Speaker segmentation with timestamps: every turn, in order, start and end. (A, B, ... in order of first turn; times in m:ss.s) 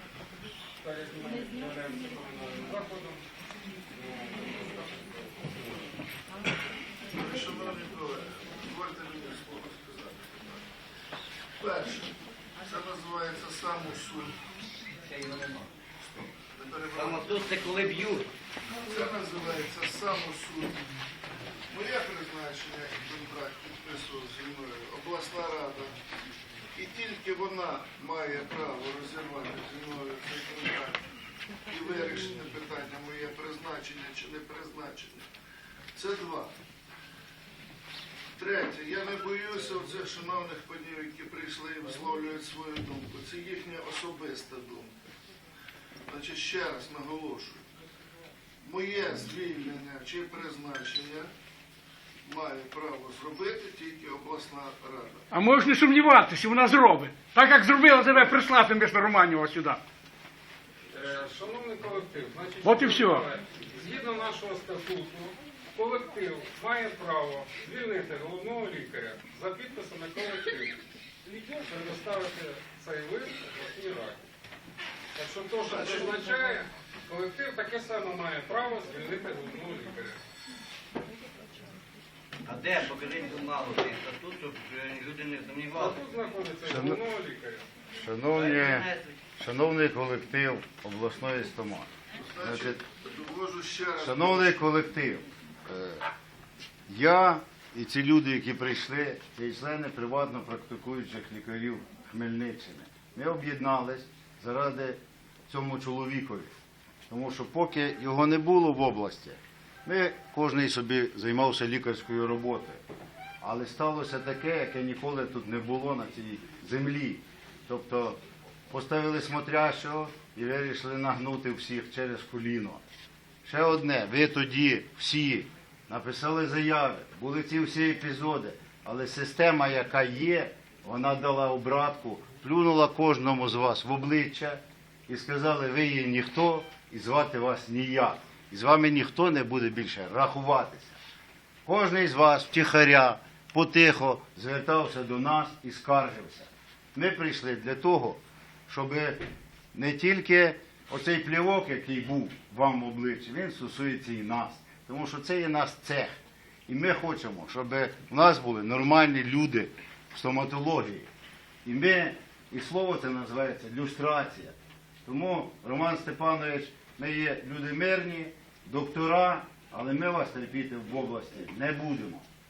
0:00.8-0:03.2 A
0:03.9-0:05.9 A
0:07.1-0:10.7 B
0:11.6-0:14.4 B
0:15.1-0:15.7 C
0:16.5-0:18.0 B
0:16.9-0:18.3 C
0:18.8-0:21.0 B
0:21.7-0:26.0 B
0:26.8-0:31.0 B
0:31.7-0:35.3 B
0:36.0-0:36.5 B
0:38.4-0:44.9 B
0:46.1-0:47.7 B
0:48.6-0:51.3 B
0:52.2-0:55.3 B
0:55.3-0:59.8 D
1:00.9-1:14.2 A
1:02.6-1:03.2 D
1:15.2-1:20.2 A
1:22.4-1:26.0 C
1:25.8-1:27.7 A
1:26.6-1:27.0 E
1:27.9-1:31.9 E
1:28.3-1:29.2 C
1:32.2-1:34.6 B
1:32.4-1:32.8 E
1:34.0-1:36.0 E
1:36.9-1:46.5 E
1:47.1-1:52.8 E
1:53.4-1:58.2 E
1:58.7-2:02.8 E
2:03.4-2:21.0 E
2:21.6-2:29.2 E
2:29.7-2:36.1 E
2:36.7-2:41.1 E
2:41.6-2:52.2 E